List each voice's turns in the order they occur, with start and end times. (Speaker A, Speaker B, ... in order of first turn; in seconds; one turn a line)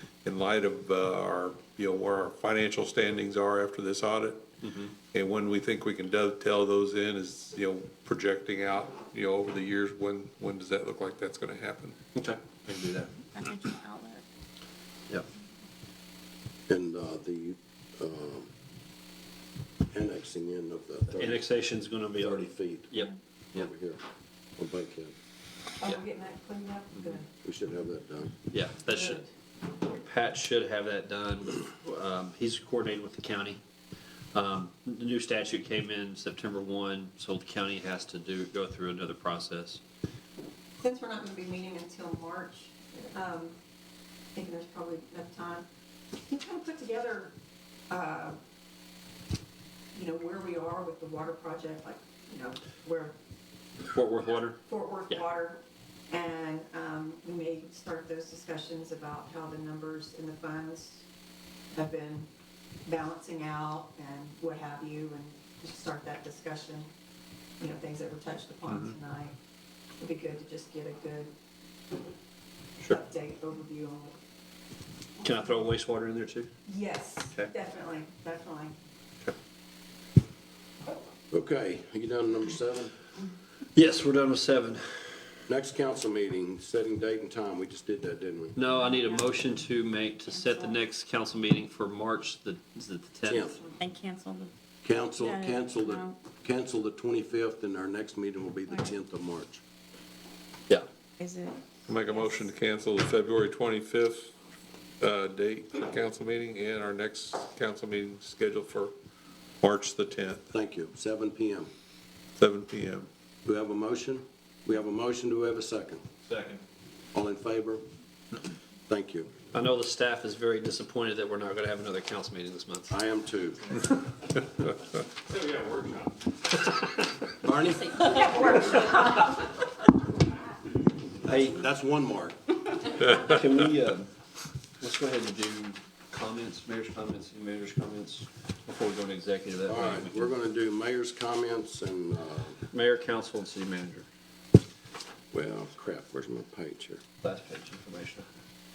Speaker A: 0.2-4.4
Speaker B: 4.6-4.9
Speaker A: 5.1-12.0
Speaker B: 12.2-13.1
Speaker C: 13.3-14.2
Speaker D: 16.7-18.5
Speaker D: 19.9-21.4
Speaker B: 21.1-23.7
Speaker D: 22.2-22.9
Speaker D: 23.6-24.0
Speaker D: 24.6-25.1
Speaker E: 25.8-27.3
Speaker D: 27.4-28.3
Speaker B: 28.5-29.2
Speaker E: 28.9-29.2
Speaker B: 29.8-33.6
Speaker B: 34.3-39.8
Speaker E: 40.8-43.5
Speaker E: 44.4-45.7
Speaker E: 46.3-47.3
Speaker E: 47.9-48.4
Speaker E: 49.9-53.1
Speaker B: 53.9-55.2
Speaker E: 54.7-61.0
Speaker E: 61.7-62.3
Speaker E: 62.9-66.9
Speaker E: 67.6-69.3
Speaker E: 70.0-71.3
Speaker E: 72.8-74.2
Speaker B: 75.2-76.5
Speaker E: 76.7-78.7
Speaker D: 81.3-82.9
Speaker B: 83.8-85.2
Speaker D: 85.5-88.6
Speaker B: 88.6-93.6
Speaker D: 93.3-93.6
Speaker C: 93.8-94.5
Speaker D: 94.8-99.6
Speaker C: 95.2-96.2
Speaker C: 101.2-101.6
Speaker A: 101.9-104.3
Speaker A: 105.0-108.9
Speaker A: 109.6-110.5
Speaker D: 110.5-111.7
Speaker A: 112.4-113.1
Speaker D: 113.5-116.0
Speaker B: 116.3-116.6
Speaker D: 117.1-117.8
Speaker D: 118.9-119.3
Speaker B: 119.5-123.0
Speaker D: 122.9-123.8
Speaker B: 125.3-126.1
Speaker D: 127.4-128.1
Speaker C: 127.9-129.4
Speaker E: 128.2-128.9
Speaker B: 131.2-131.6
Speaker D: 131.3-132.4
Speaker B: 133.0-134.1
Speaker B: 134.8-140.3
Speaker D: 139.7-142.6
Speaker B: 142.7-144.1
Speaker D: 145.3-147.0
Speaker B: 147.2-148.3